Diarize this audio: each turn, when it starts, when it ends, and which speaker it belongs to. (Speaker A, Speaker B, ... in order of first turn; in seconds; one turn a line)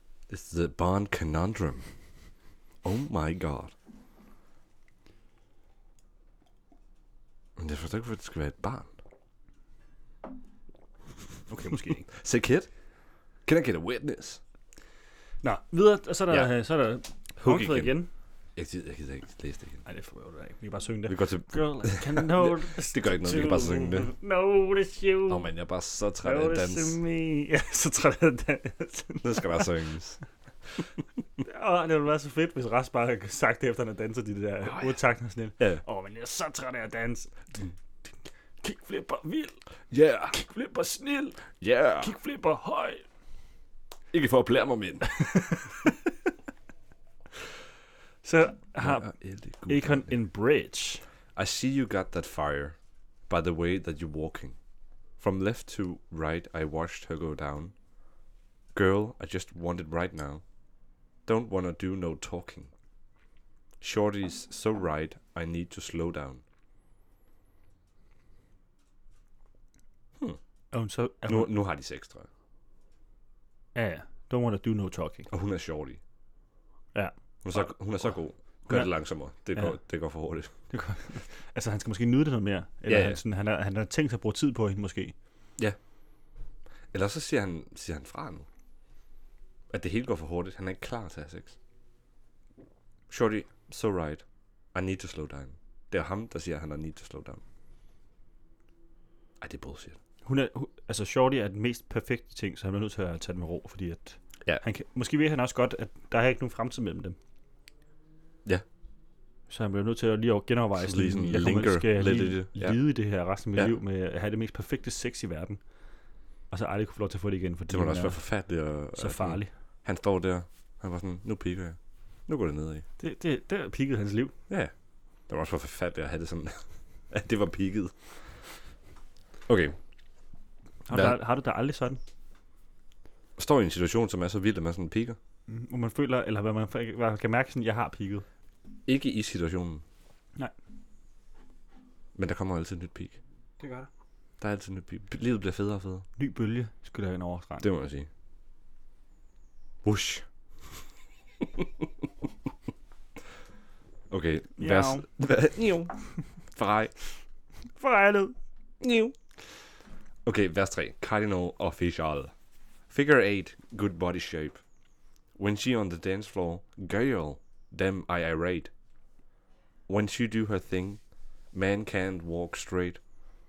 Speaker A: 0.3-1.9
Speaker A: 2.8-3.7
Speaker A: 7.6-8.9
Speaker B: 11.5-12.1
Speaker A: 12.0-12.7
Speaker A: 13.5-14.4
Speaker B: 15.4-18.1
Speaker A: 17.4-18.0
Speaker A: 18.6-19.8
Speaker B: 19.9-25.5
Speaker A: 21.1-24.1
Speaker A: 25.3-27.0
Speaker B: 26.2-29.7
Speaker A: 29.2-30.2
Speaker B: 31.4-38.1
Speaker A: 34.6-35.0
Speaker B: 38.6-39.6
Speaker A: 39.9-40.4
Speaker B: 40.3-43.0
Speaker A: 41.6-42.1
Speaker A: 44.1-45.3
Speaker B: 45.0-45.9
Speaker B: 48.2-51.0
Speaker A: 48.8-50.1
Speaker A: 51.4-52.8
Speaker A: 53.3-54.6
Speaker A: 55.2-57.7
Speaker A: 58.7-60.4
Speaker A: 61.3-62.7
Speaker A: 63.8-66.4
Speaker B: 70.7-71.5
Speaker A: 71.3-72.3
Speaker B: 73.8-75.3
Speaker A: 75.3-76.0
Speaker B: 76.9-78.2
Speaker A: 77.4-80.5
Speaker B: 80.7-85.2
Speaker A: 82.9-83.2
Speaker A: 86.9-88.5
Speaker A: 89.7-91.6
Speaker A: 93.1-97.4
Speaker A: 99.4-100.0
Speaker B: 100.2-107.2
Speaker B: 109.5-115.6
Speaker A: 110.8-112.8
Speaker B: 116.5-118.2
Speaker A: 117.7-122.9
Speaker B: 119.0-119.5
Speaker B: 123.0-124.3
Speaker A: 125.3-128.4
Speaker A: 129.5-129.8
Speaker B: 130.9-132.0
Speaker A: 130.9-131.2
Speaker A: 133.4-135.2
Speaker B: 135.5-138.2
Speaker A: 138.9-139.8
Speaker A: 142.2-143.2
Speaker B: 143.6-143.9
Speaker A: 144.4-146.1
Speaker B: 146.2-147.7
Speaker A: 147.6-148.1
Speaker A: 149.8-150.3
Speaker A: 151.4-151.8
Speaker A: 154.1-156.9
Speaker B: 154.6-155.1
Speaker B: 157.8-158.4
Speaker A: 158.8-159.2
Speaker A: 160.2-162.3
Speaker A: 162.9-164.6
Speaker A: 165.4-168.7
Speaker A: 169.9-171.0
Speaker A: 171.5-173.0